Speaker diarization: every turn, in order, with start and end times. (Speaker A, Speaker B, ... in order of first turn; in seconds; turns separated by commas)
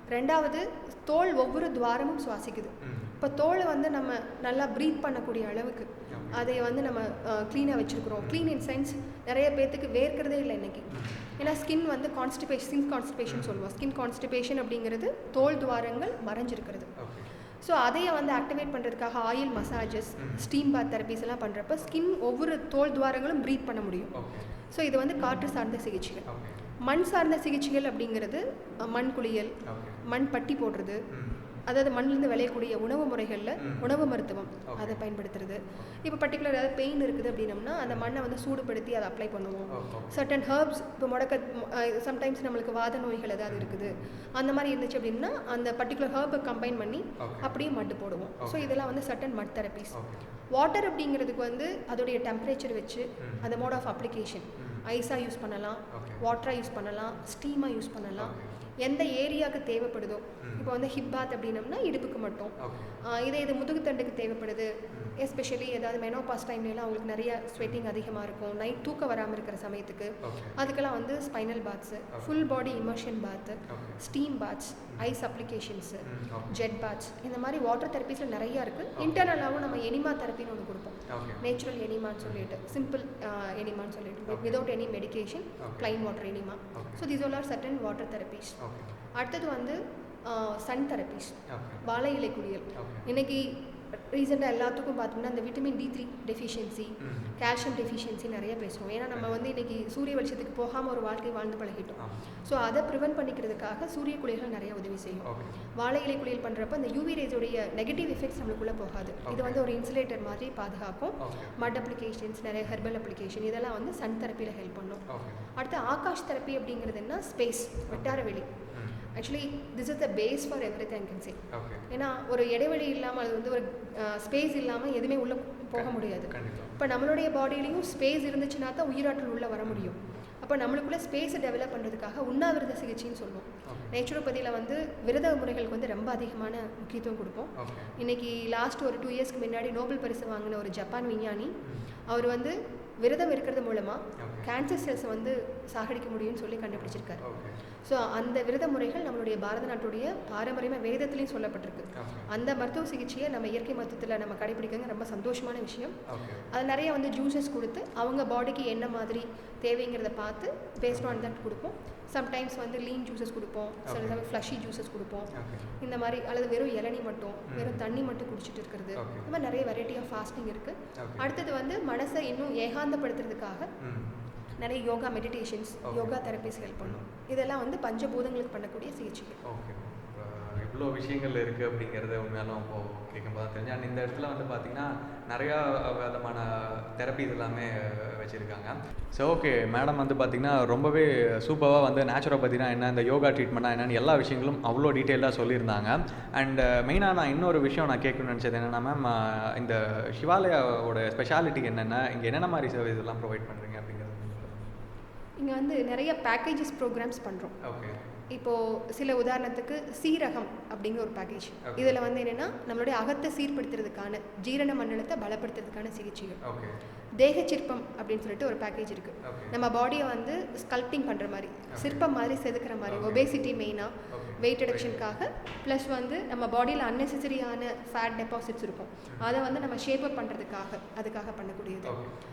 Speaker A: 0.1-16.9, Speaker B: 2.8-3.2, Speaker B: 6.1-6.5, Speaker B: 8.2-8.5, Speaker B: 13.3-13.6, Speaker B: 17.0-17.3, Speaker A: 17.6-24.1, Speaker B: 20.2-20.4, Speaker B: 24.1-24.5, Speaker A: 24.7-26.2, Speaker B: 26.3-26.6, Speaker A: 26.9-29.5, Speaker B: 29.6-30.0, Speaker A: 30.1-31.0, Speaker B: 31.1-31.4, Speaker A: 31.7-49.9, Speaker B: 33.6-33.9, Speaker B: 34.7-35.0, Speaker B: 37.9-38.1, Speaker B: 39.7-40.3, Speaker B: 43.5-43.9, Speaker B: 47.2-47.5, Speaker B: 48.4-48.9, Speaker B: 49.9-50.2, Speaker A: 50.5-62.5, Speaker B: 53.2-53.5, Speaker B: 54.6-54.8, Speaker B: 55.9-56.2, Speaker B: 58.2-58.6, Speaker B: 60.4-60.7, Speaker B: 62.6-63.0, Speaker A: 63.1-88.5, Speaker B: 70.2-70.6, Speaker B: 73.7-74.0, Speaker B: 76.0-76.6, Speaker B: 79.0-79.5, Speaker B: 81.1-81.5, Speaker B: 82.2-82.5, Speaker B: 84.3-84.6, Speaker B: 85.6-86.0, Speaker B: 86.7-87.0, Speaker B: 88.6-88.9, Speaker A: 89.2-105.2, Speaker B: 91.5-91.8, Speaker B: 92.7-93.1, Speaker B: 97.0-97.3, Speaker B: 99.1-99.5, Speaker B: 105.2-105.6, Speaker A: 105.8-115.0, Speaker B: 109.2-109.6, Speaker B: 111.2-111.7, Speaker B: 115.1-115.5, Speaker A: 115.6-118.5, Speaker B: 117.9-118.2, Speaker A: 119.2-121.4, Speaker B: 121.5-121.9, Speaker A: 121.9-141.5, Speaker B: 125.8-126.8, Speaker B: 129.6-129.9, Speaker B: 133.7-133.9, Speaker B: 137.6-137.9, Speaker A: 142.1-147.2, Speaker B: 144.2-144.5, Speaker B: 146.7-147.6, Speaker A: 147.9-155.9, Speaker B: 151.9-152.3, Speaker B: 156.1-156.5, Speaker A: 156.5-173.7, Speaker B: 160.9-161.2, Speaker B: 163.9-164.2, Speaker B: 165.4-165.7, Speaker B: 167.5-167.8, Speaker B: 169.0-169.3, Speaker B: 171.0-171.3, Speaker B: 173.8-174.1, Speaker A: 174.6-179.4, Speaker B: 175.9-176.1, Speaker B: 176.8-177.1, Speaker B: 179.4-204.7, Speaker A: 205.4-207.5, Speaker B: 207.7-208.0, Speaker A: 208.3-216.4, Speaker B: 211.6-212.0, Speaker B: 216.4-216.8, Speaker A: 217.2-231.9, Speaker B: 219.2-219.6, Speaker B: 221.7-222.0, Speaker B: 222.9-223.4, Speaker B: 224.1-225.1, Speaker B: 231.8-232.1